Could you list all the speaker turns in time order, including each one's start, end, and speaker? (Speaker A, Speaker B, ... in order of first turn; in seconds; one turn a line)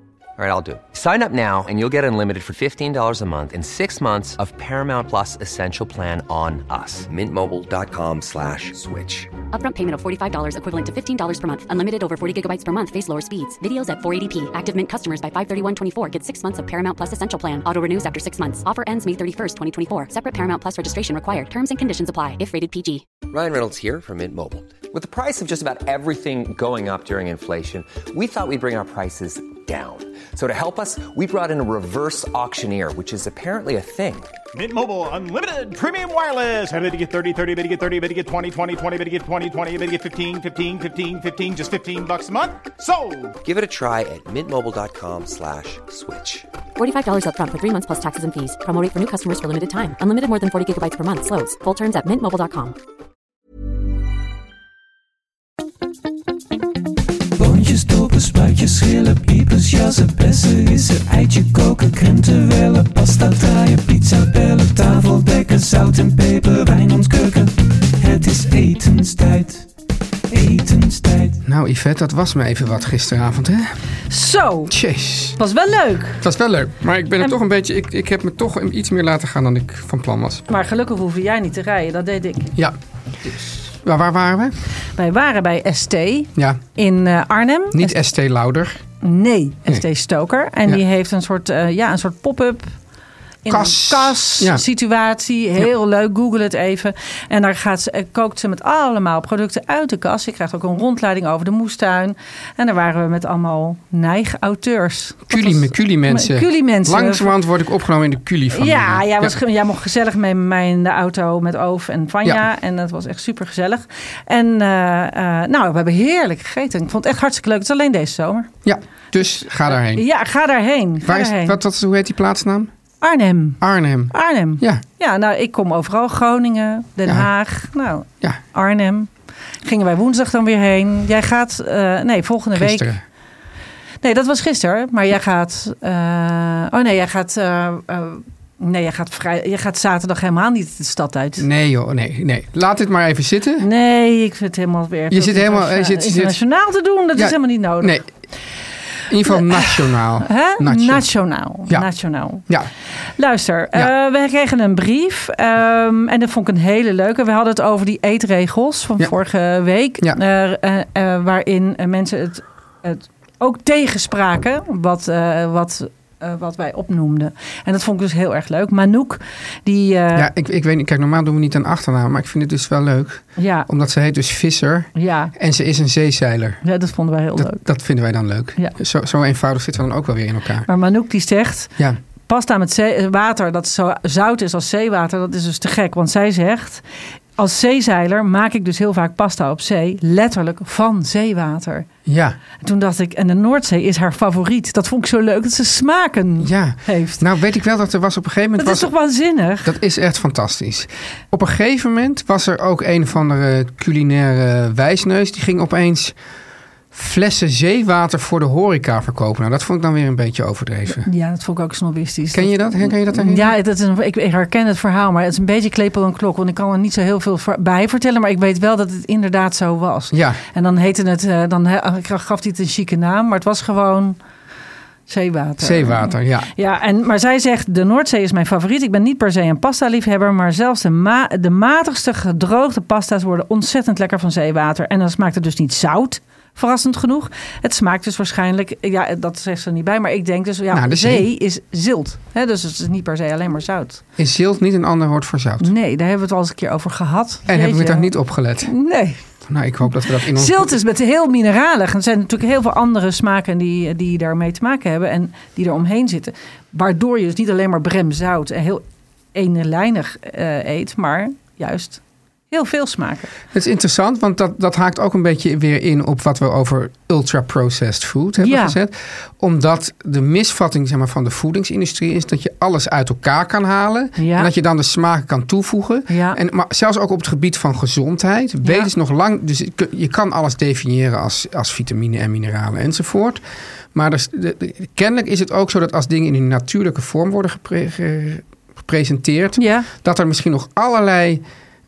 Speaker A: 0.4-9.3
Speaker B: 9.5-23.1
Speaker A: 23.3-34.3
Speaker C: 34.5-43.4
Speaker A: 43.4-46.5
Speaker B: 46.8-52.8
Speaker D: 57.4-69.7
Speaker D: 70.3-71.4
Speaker E: 71.4-73.7
Speaker F: 74.1-74.7
Speaker E: 74.7-75.4
Speaker F: 75.4-76.2
Speaker E: 76.2-80.5
Speaker F: 80.5-82.5
Speaker E: 82.5-84.5
Speaker F: 85.0-88.0
Speaker E: 87.7-88.8
Speaker F: 89.0-92.7
Speaker F: 93.4-107.3
Speaker E: 93.5-94.6
Speaker E: 105.3-109.4
Speaker F: 108.5-118.5
Speaker E: 118.6-120.0
Speaker F: 119.7-121.6
Speaker E: 121.0-122.7
Speaker F: 123.0-129.1
Speaker E: 123.6-124.8
Speaker F: 129.6-132.9
Speaker E: 132.6-133.0
Speaker F: 134.0-141.5
Speaker E: 141.4-143.7
Speaker F: 143.6-147.9
Speaker E: 145.1-146.4
Speaker E: 147.2-148.1
Speaker E: 149.1-151.0
Speaker F: 149.2-152.5
Speaker F: 153.2-170.3
Speaker E: 170.1-176.6
Speaker F: 173.4-173.7
Speaker F: 174.9-175.3
Speaker F: 176.6-177.7
Speaker E: 177.3-180.7
Speaker F: 180.7-181.8
Speaker F: 182.3-186.8
Speaker F: 187.4-191.9
Speaker E: 192.1-192.4
Speaker F: 192.6-197.2
Speaker E: 196.4-198.9
Speaker F: 198.6-199.7
Speaker E: 199.7-206.2
Speaker E: 206.9-211.1
Speaker F: 210.9-224.2
Speaker E: 212.3-213.5
Speaker E: 220.1-220.4
Speaker F: 225.1-244.0
Speaker E: 225.6-226.5
Speaker E: 240.7-241.3
Speaker E: 244.2-245.7
Speaker F: 245.6-248.1
Speaker E: 247.5-248.7
Speaker F: 248.7-249.2
Speaker E: 249.5-250.8
Speaker F: 250.2-258.8
Speaker F: 259.3-263.3
Speaker E: 263.5-283.4
Speaker F: 268.4-268.8
Speaker F: 274.2-274.5
Speaker F: 276.1-276.4
Speaker F: 278.6-278.9
Speaker E: 283.9-291.4
Speaker F: 289.6-289.9